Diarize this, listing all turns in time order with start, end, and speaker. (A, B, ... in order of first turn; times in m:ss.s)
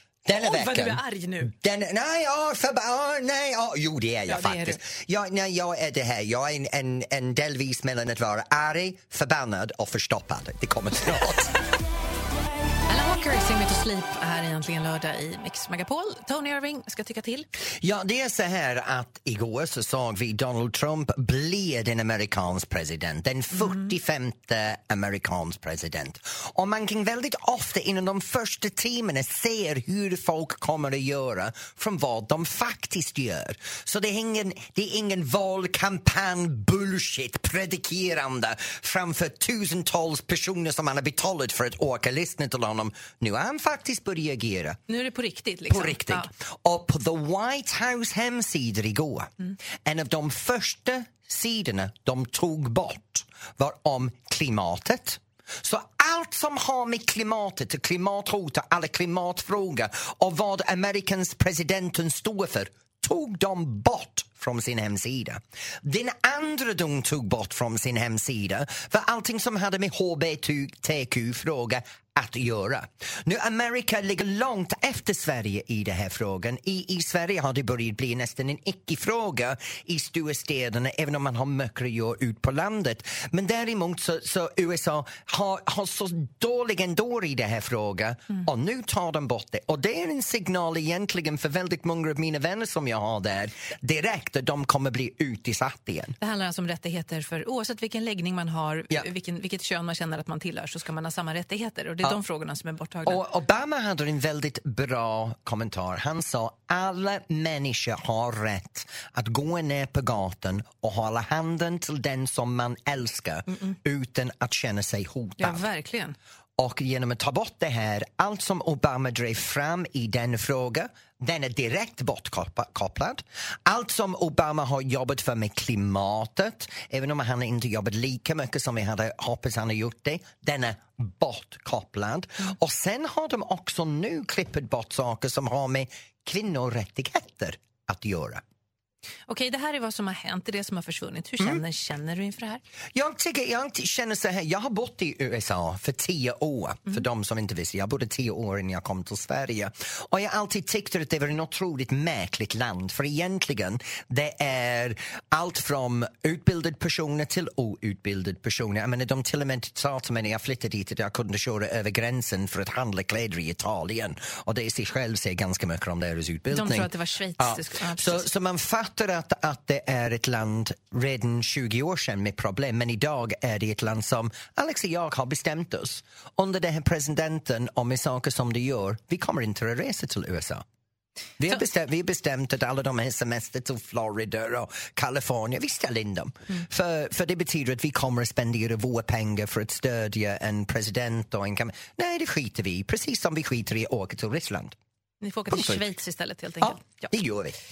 0:00.2-0:11.6 A
0:00.3-0:01.5 B
0:04.3-0:04.8 B
0:12.9-0:17.5 B
0:17.8-0:44.8 A
0:44.9-0:46.3 B
0:45.7-0:49.3 A
0:49.8-1:36.2 A
1:36.2-1:43.2 B
1:43.0-1:55.6 A
1:55.4-1:56.2 B
1:56.6-2:18.4 A
2:19.3-2:22.6 B
2:22.9-3:00.6 A
2:46.5-2:48.3 B
3:01.4-3:14.8 A
3:15.2-3:17.1 B
3:15.5-3:15.8 A
3:16.6-3:17.6 A